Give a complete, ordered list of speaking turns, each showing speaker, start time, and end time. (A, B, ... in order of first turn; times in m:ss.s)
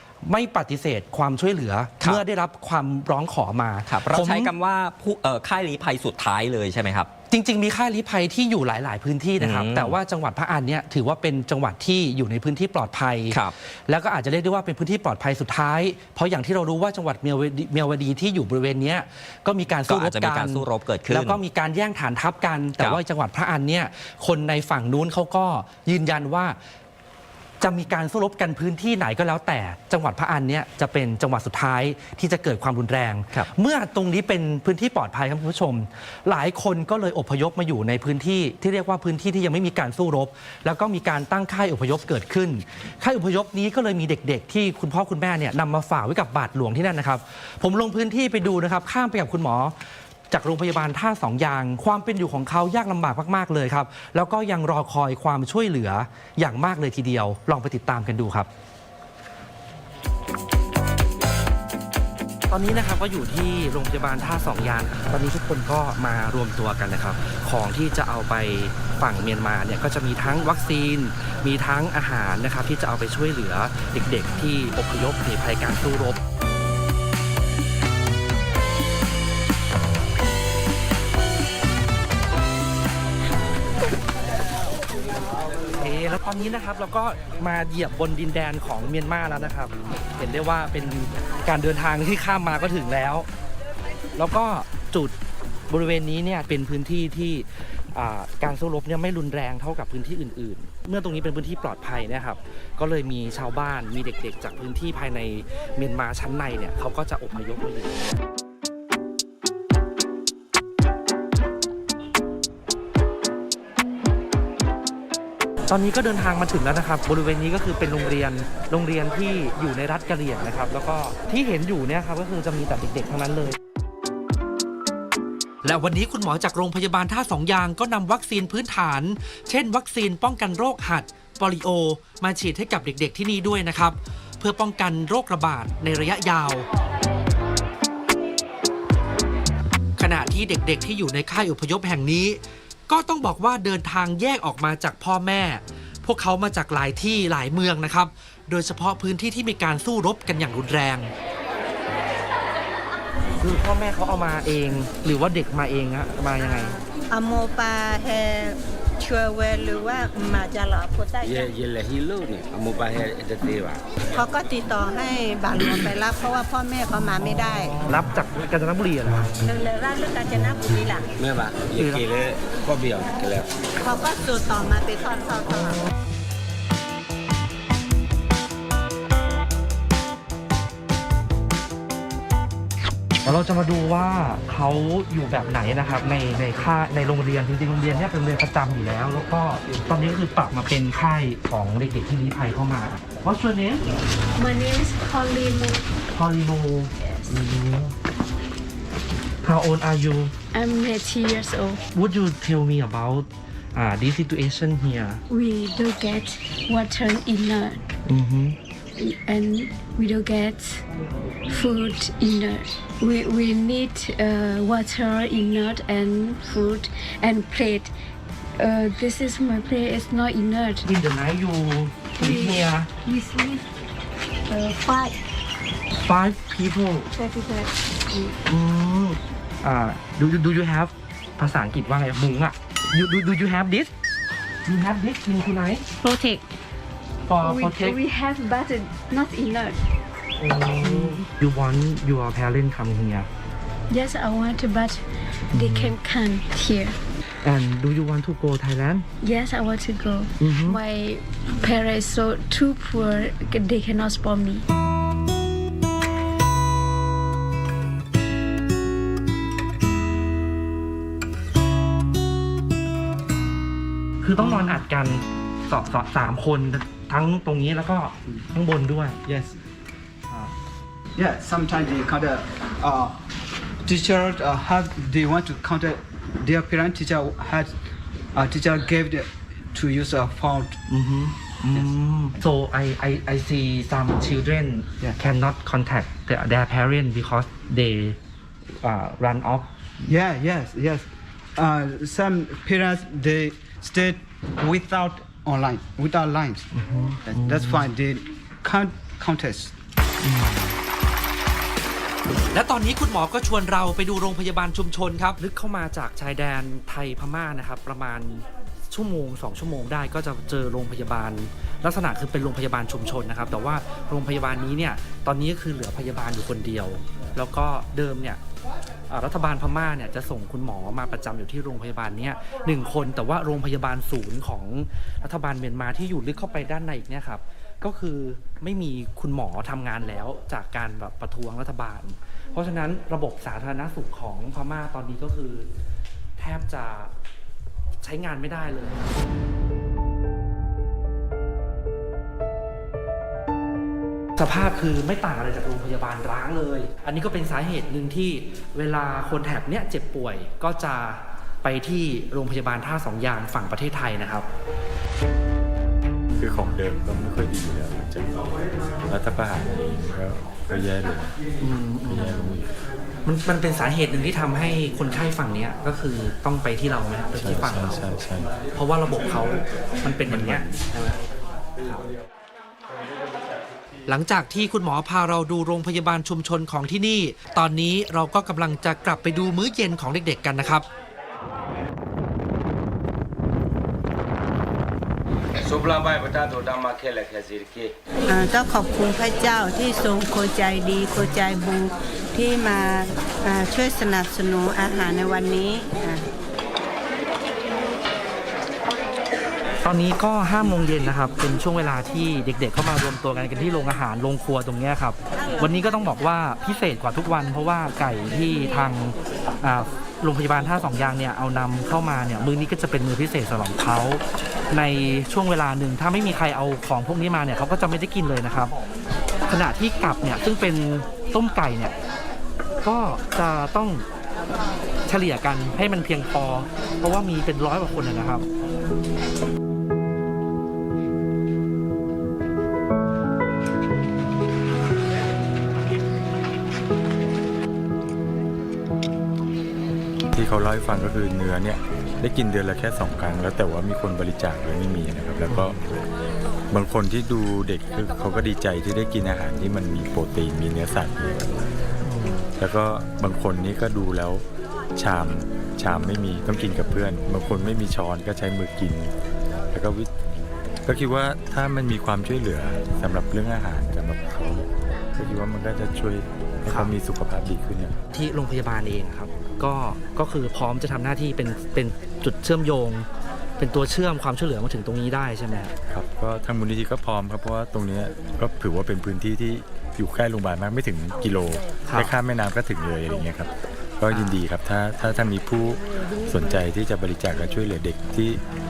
0:00.2-0:04.5 A
0:03.9-0:07.1 B
0:07.3-0:26.6 A
0:09.4-0:10.0 B
0:19.9-0:21.4 B
0:27.6-0:49.7 A
0:50.3-0:58.5 A
1:02.5-1:16.2 A
1:25.8-1:33.3 A
1:34.2-1:35.2 A
1:35.7-1:48.2 A
1:55.7-2:03.6 A
2:05.6-2:16.7 A
2:20.0-2:31.1 A
2:33.4-2:36.8 A
2:36.4-2:41.5 C
2:41.2-2:43.8 D
2:44.1-2:47.8 C
2:47.8-2:49.3 A
2:49.4-2:51.1 C
2:51.2-2:53.5 D
2:51.8-2:52.0 A
2:53.8-2:55.8 C
3:03.2-3:13.9 A
3:14.4-3:15.8 E
3:16.1-3:17.9 A
3:19.4-3:20.4 A
3:20.5-3:21.8 E
3:21.9-3:25.2 A
3:25.3-3:27.8 E
3:28.1-3:28.6 A
3:29.0-3:30.8 E
3:31.5-3:37.9 E
3:38.6-3:40.8 E
3:40.8-3:42.9 A
3:42.2-3:43.6 E
3:44.5-3:45.2 E
3:46.0-3:47.1 A
3:47.1-3:48.4 E
3:48.5-3:53.9 A
3:54.7-3:56.0 A
3:56.0-3:56.4 E
3:57.3-3:58.0 A
3:57.4-3:59.8 E
4:00.4-4:03.3 A
4:00.8-4:01.2 E
4:03.9-4:07.0 E
4:05.5-4:06.0 A
4:07.4-4:09.1 A
4:09.2-4:14.7 E
4:10.4-4:10.8 A
4:24.2-4:29.2 A
4:24.4-4:24.8 F
4:29.3-4:29.6 F
4:31.2-4:33.2 F
4:33.8-4:37.8 F
4:38.4-4:40.8 F
4:40.9-4:48.2 A
4:48.8-4:49.7 A
4:50.1-4:56.7 F
4:56.7-4:57.8 A
4:57.3-4:59.7 F
5:00.2-5:00.7 A
5:02.5-5:18.4 A
5:19.1-5:35.7 A
5:36.4-5:37.1 A
5:38.0-5:39.0 A
5:44.4-5:54.5 A
5:56.4-6:01.4 G
6:01.6-6:02.6 A
6:02.0-6:02.7 G
6:03.2-6:08.0 A
6:07.4-6:08.6 G
6:08.8-6:11.2 A
6:10.3-6:10.8 G
6:11.8-6:12.1 A
6:14.1-6:20.9 A
6:25.6-6:27.9 D
6:28.3-6:36.3 C
6:39.8-6:58.7 A
6:59.5-7:01.9 A
7:02.8-7:04.0 A
7:05.1-7:08.5 A
7:20.3-7:25.8 G
7:25.5-7:25.8 A
7:26.7-7:31.6 G
7:32.0-7:32.5 A
7:32.6-7:39.1 G
7:39.7-7:40.1 G
7:40.8-7:48.0 G
7:48.1-7:53.1 A
7:53.6-7:55.7 A
7:55.9-8:08.4 G
8:01.9-8:02.1 A
8:04.1-8:04.4 A